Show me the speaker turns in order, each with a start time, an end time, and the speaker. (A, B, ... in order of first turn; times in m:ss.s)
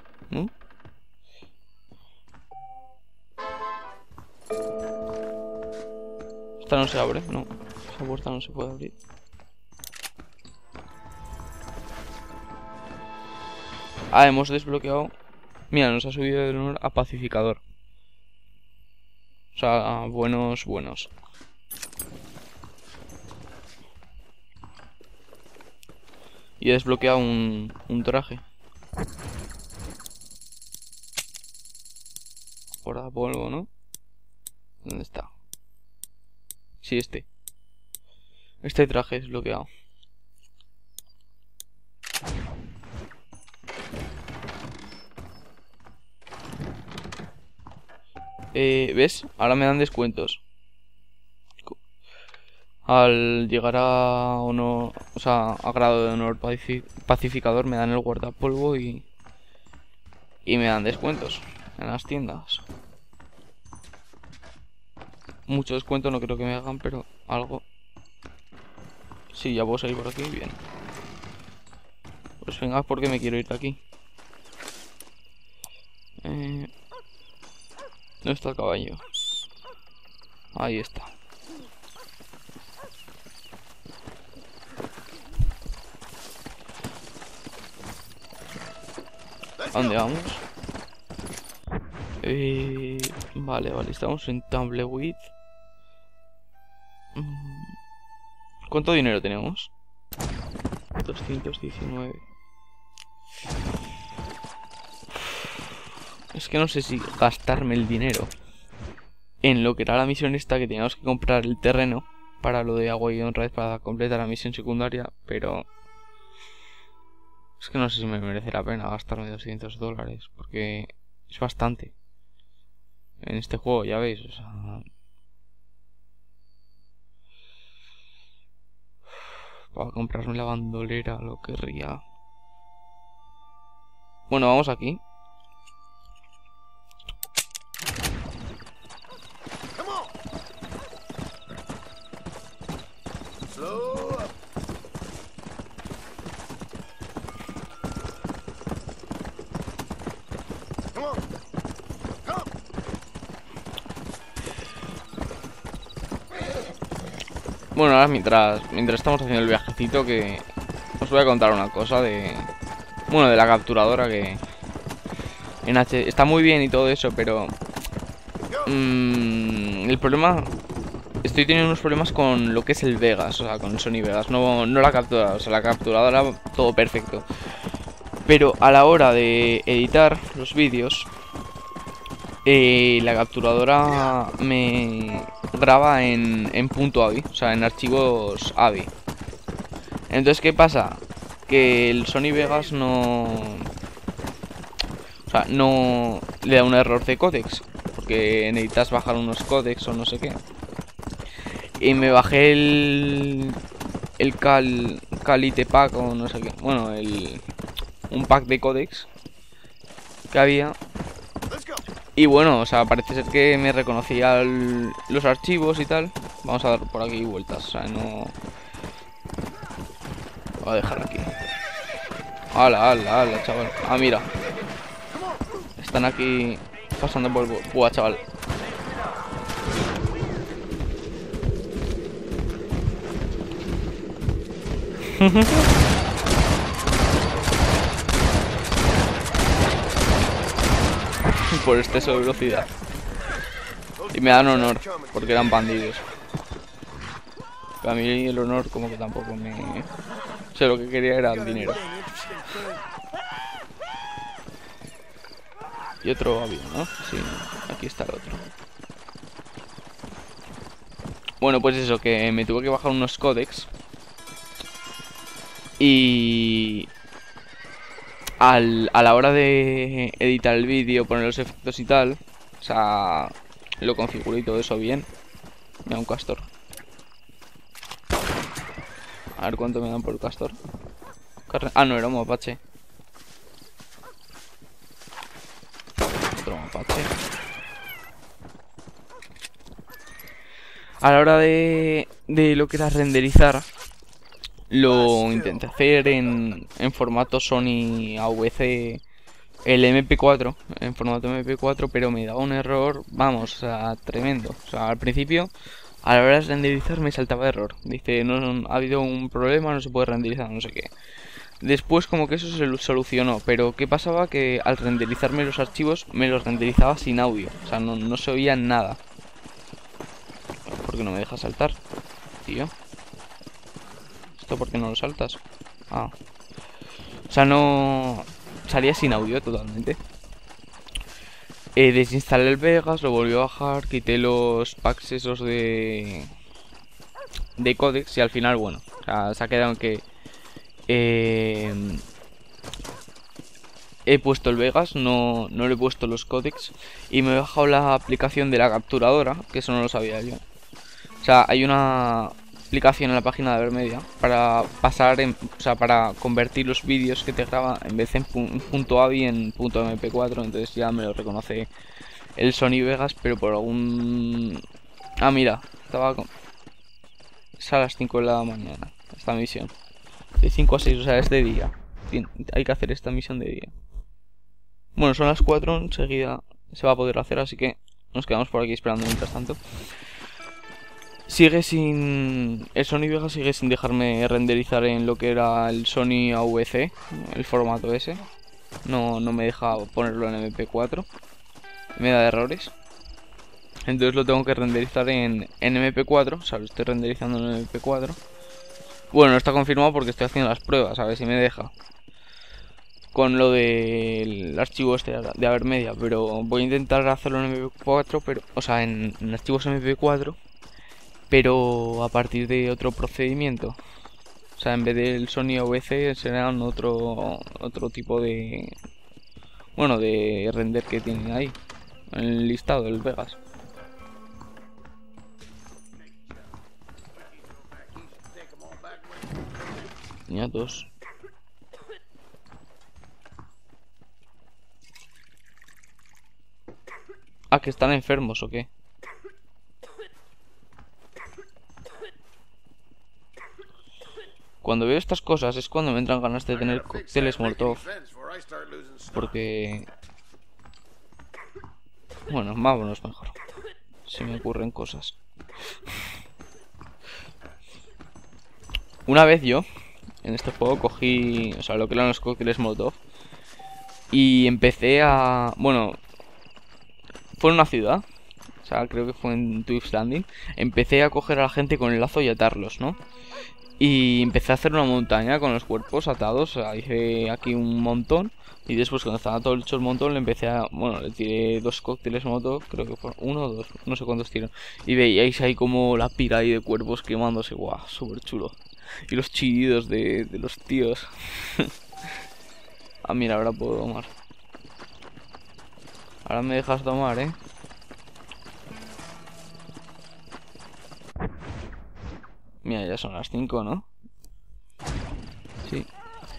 0:06.6-0:08.9 A
0:14.1-0:15.1 A
0:15.7-0:17.6 A
0:19.5-0:21.1 A
0:26.6-0:28.4 A
0:32.8-0:33.7 A
0:34.8-0:35.3 A
0:36.8-0:37.2 A
0:38.6-0:39.7 A
0:48.5-0:50.4 A
0:52.8-0:59.0 A
1:00.4-1:02.6 A
1:05.5-1:07.6 A
1:09.3-1:10.6 A
1:12.4-1:13.8 A
1:16.2-1:16.7 A
1:18.2-1:19.0 A
1:20.5-1:21.1 A
1:29.6-1:30.0 B
1:29.7-1:30.4 A
1:32.2-1:35.3 A
1:37.1-1:37.8 A
1:38.7-1:39.7 A
1:41.0-1:42.2 A
1:46.3-1:48.3 A
1:49.4-1:55.7 A
1:57.6-2:01.9 A
2:03.2-2:04.8 A
2:09.7-2:12.0 A
2:14.3-2:15.0 A
2:19.7-2:20.1 B
2:23.5-2:24.3 B
2:30.9-2:31.2 B
2:32.2-2:32.5 B
2:37.7-2:40.4 A
2:41.0-2:42.5 A
2:43.1-2:44.4 A
2:45.6-2:47.5 A
2:48.4-2:48.7 B
2:48.6-2:50.5 A
2:51.2-2:57.2 A
2:58.2-3:01.1 A
3:02.4-3:08.9 A
3:03.8-3:04.1 B
3:10.1-3:13.7 A
3:15.3-3:20.4 A
3:21.8-3:23.6 A
3:24.2-3:27.4 A
3:28.1-3:29.1 A
3:30.3-3:30.8 A
3:31.5-3:31.8 B
3:32.2-3:38.3 A
3:40.6-3:41.4 A
3:42.5-3:44.3 A
3:45.8-3:48.2 A
3:55.2-3:55.6 A
4:01.5-4:02.7 A
4:04.0-4:05.6 B
4:04.1-4:06.0 A
4:07.8-4:09.9 A
4:10.5-4:11.8 A
4:11.2-4:12.9 B
4:16.0-4:18.5 A
4:21.4-4:23.7 A
4:25.8-4:26.9 A
4:28.4-4:35.1 A
4:35.8-4:36.5 A
4:39.4-4:40.6 A
4:41.5-4:42.6 A
4:46.3-4:47.1 A
4:51.0-4:53.7 A
4:54.7-4:59.0 A
4:54.8-4:55.7 B
4:59.6-5:05.5 A
5:06.0-5:10.9 A
5:11.6-5:19.0 A
5:20.7-5:21.8 A
5:22.4-5:22.7 A
5:24.4-5:26.1 A
5:27.3-5:30.0 A
5:31.8-5:36.3 A
5:37.6-5:40.0 A
5:40.9-5:42.0 A
5:44.1-5:50.4 A
5:51.2-6:01.7 A
6:02.4-6:04.6 A
6:05.2-6:06.3 A
6:07.6-6:09.7 A
6:10.4-6:13.7 A
6:15.0-6:19.6 A
6:21.3-6:28.2 A
6:28.8-6:31.1 A
6:32.0-6:32.7 A
6:33.8-6:38.2 A
6:39.1-6:41.7 A
6:43.1-6:50.4 A
6:51.3-6:53.8 A
6:54.6-6:58.7 A
6:59.8-7:01.6 A
7:02.1-7:03.4 A
7:07.6-7:09.1 B
7:10.3-7:10.9 A
7:17.5-7:18.7 A
7:24.6-7:27.9 A
7:26.5-7:29.3 B
7:29.1-7:29.9 A
7:32.3-7:33.3 A
7:34.0-7:35.2 A
7:39.1-7:39.6 A
7:40.2-7:43.0 A
7:44.1-7:46.0 A
7:47.4-7:48.0 A
7:48.6-7:53.0 A
7:53.8-8:11.7 A
8:13.0-8:14.1 A
8:16.2-8:17.4 A
8:22.6-8:23.9 A